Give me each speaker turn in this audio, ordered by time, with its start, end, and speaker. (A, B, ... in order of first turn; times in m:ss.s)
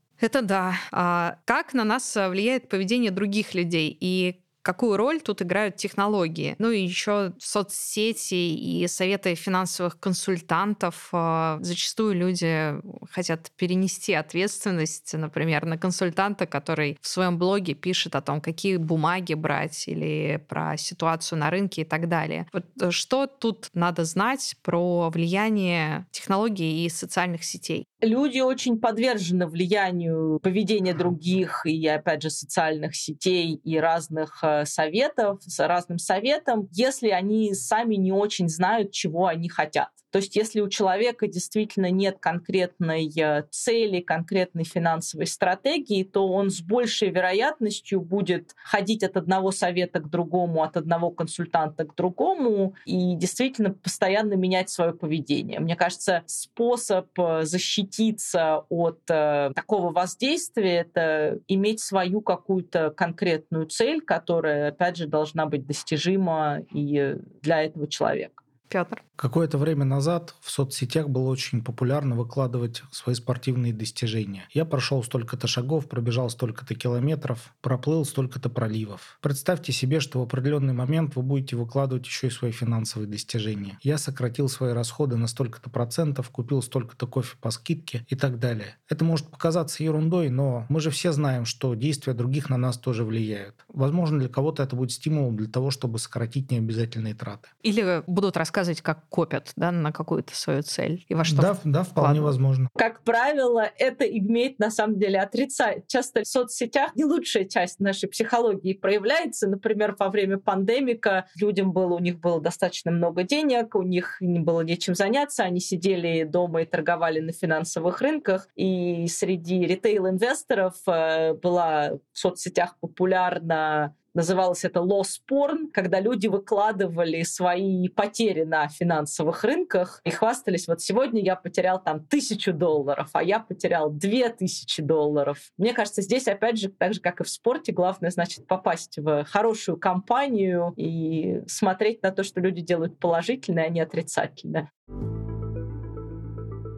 0:00.2-0:27.8 A
0:28.0-1:08.4 B
1:08.7-1:09.0 A
1:09.2-1:37.5 C
1:37.6-1:42.3 A
1:41.2-1:42.7 C
1:42.8-2:24.6 B